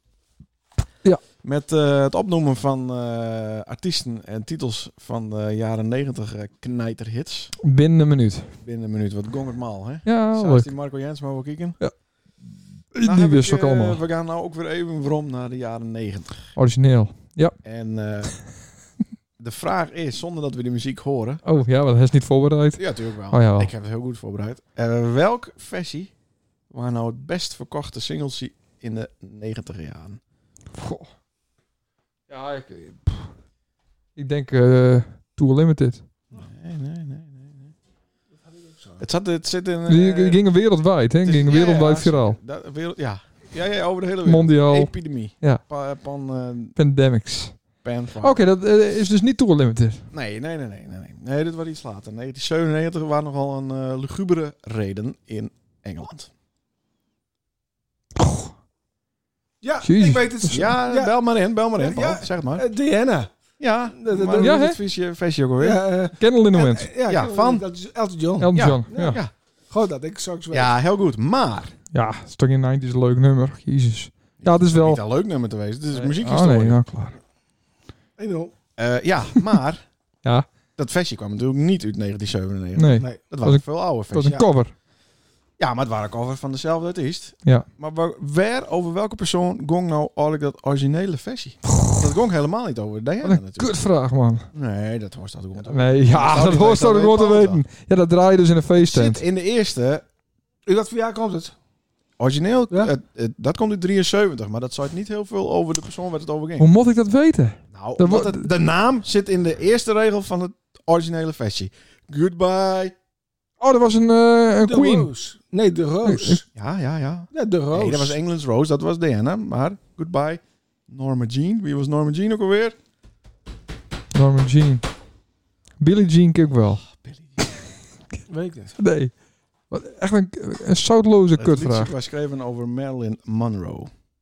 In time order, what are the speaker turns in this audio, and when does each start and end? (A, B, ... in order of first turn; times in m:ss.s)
0:01.4-0:07.6 A
0:07.6-0:08.5 B
0:08.6-0:11.8 A
0:10.0-0:10.7 B
0:11.8-0:14.0 B
0:13.0-0:16.4 A
0:16.6-0:17.6 B
0:17.6-0:18.5 A
0:19.4-0:21.4 A
0:21.4-0:23.7 B
0:22.8-0:26.1 A
0:26.7-0:30.2 A
0:30.7-0:31.1 B
0:32.3-0:33.3 B
0:34.2-0:36.0 B
0:36.3-0:37.7 A
0:38.4-0:39.0 C
0:39.0-0:40.4 A
0:39.9-0:42.4 B
0:41.2-0:46.8 A
0:44.2-0:45.6 B
0:46.8-0:50.0 B
0:47.8-0:48.4 A
0:50.1-0:56.3 A
0:58.2-0:58.5 B
0:59.6-1:01.1 C
0:59.8-1:00.7 B
1:00.5-1:02.6 A
1:01.8-1:03.3 C
1:03.6-1:05.8 A
1:03.9-1:04.6 C
1:04.4-1:04.8 B
1:05.6-1:09.2 C
1:06.2-1:06.9 B
1:07.1-1:07.6 A
1:08.4-1:09.2 B
1:08.5-1:09.3 A
1:09.7-1:10.7 C
1:10.5-1:11.7 A
1:11.9-1:15.0 B
1:14.4-1:16.8 A
1:15.9-1:17.2 B
1:18.2-1:18.5 C
1:18.8-1:19.8 A
1:20.8-1:24.4 A
1:22.8-1:24.7 B
1:25.6-1:33.7 A
1:33.2-1:34.5 B
1:34.5-1:37.6 A
1:35.7-1:39.2 B
1:38.8-1:40.0 A
1:40.7-1:41.5 C
1:42.2-1:46.7 A
1:46.6-1:48.5 B
1:47.7-1:52.9 A
1:53.6-1:55.1 B
1:54.6-1:56.4 C
1:56.0-1:56.4 B
1:56.6-2:02.8 A
1:57.3-1:58.2 C
2:04.1-2:04.8 B
2:05.8-2:06.9 B
2:07.0-2:07.4 A
2:08.3-2:08.8 C
2:08.8-2:09.1 B
2:09.7-2:11.9 B
2:11.4-2:13.9 A